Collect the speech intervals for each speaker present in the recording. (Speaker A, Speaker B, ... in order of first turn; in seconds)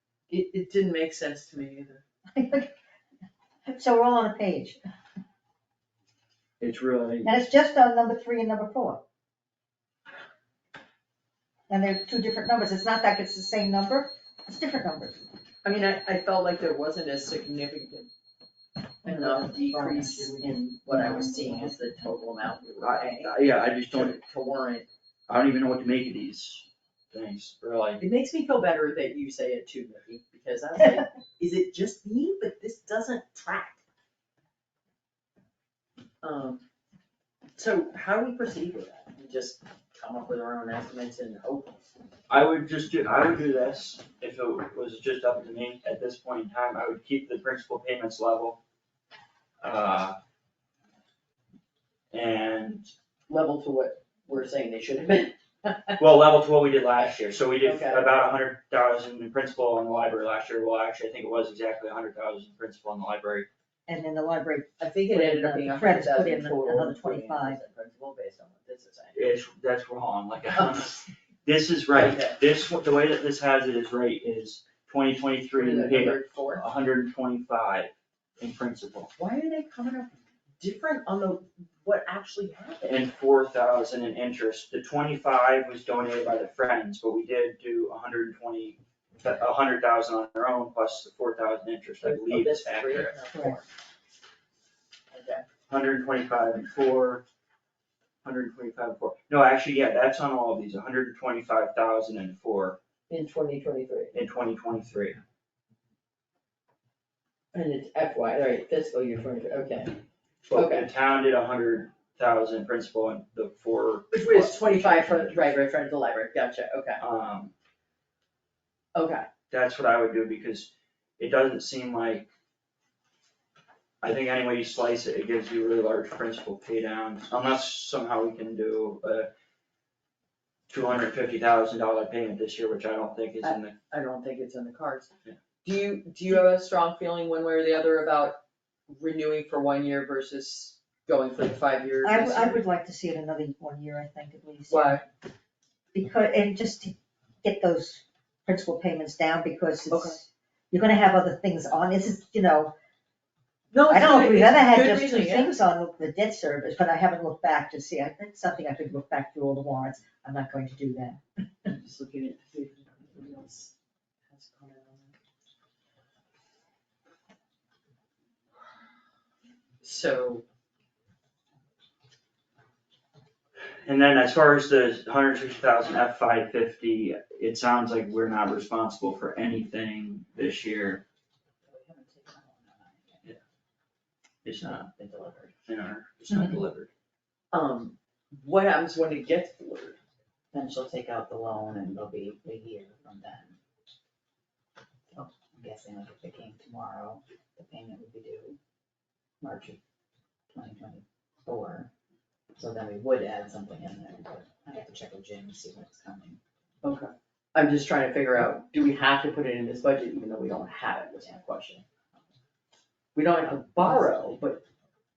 Speaker A: 0.3-2.0, 15.6-18.1, 19.0-24.9, 28.0-33.8, 36.2-36.6, 37.5-41.8, 53.3-56.0, 57.6-58.1, 64.8-69.2, 72.0-72.4, 75.5-76.7, 79.2-83.0, 92.0-93.6, 95.1-95.5, 103.1-104.2, 107.5-110.9, 114.1-117.0, 118.9-119.3, 133.4-135.1, 135.6-142.6, 144.7-145.1, 149.9-150.2, 153.7-155.6, 161.7-163.7, 164.3-165.2, 169.8-170.4, 187.5-190.0, 206.8-211.8, 213.1-214.6
Speaker B: 2.3-2.7, 3.6-4.8, 7.2-9.0, 11.7-15.2, 63.9-67.6, 142.0-145.1, 145.9-152.7, 153.8-161.2
Speaker C: 6.6-7.3, 22.8-24.1, 25.3-28.0, 42.3-48.6, 49.6-50.2, 52.1-52.9, 56.0-63.5, 69.1-79.1, 82.8-93.1, 95.7-97.2, 98.2-102.8, 104.1-105.2, 110.5-115.5, 117.0-117.5, 119.5-122.3, 124.0-129.3, 130.7-133.8, 173.8-181.0, 184.4-184.8, 185.7-186.9
Speaker D: 19.1-20.3, 20.9-21.7, 181.7-183.4, 184.6-185.5, 190.5-193.6, 195.1-198.6, 199.4-199.8, 200.5-201.9, 202.5-206.4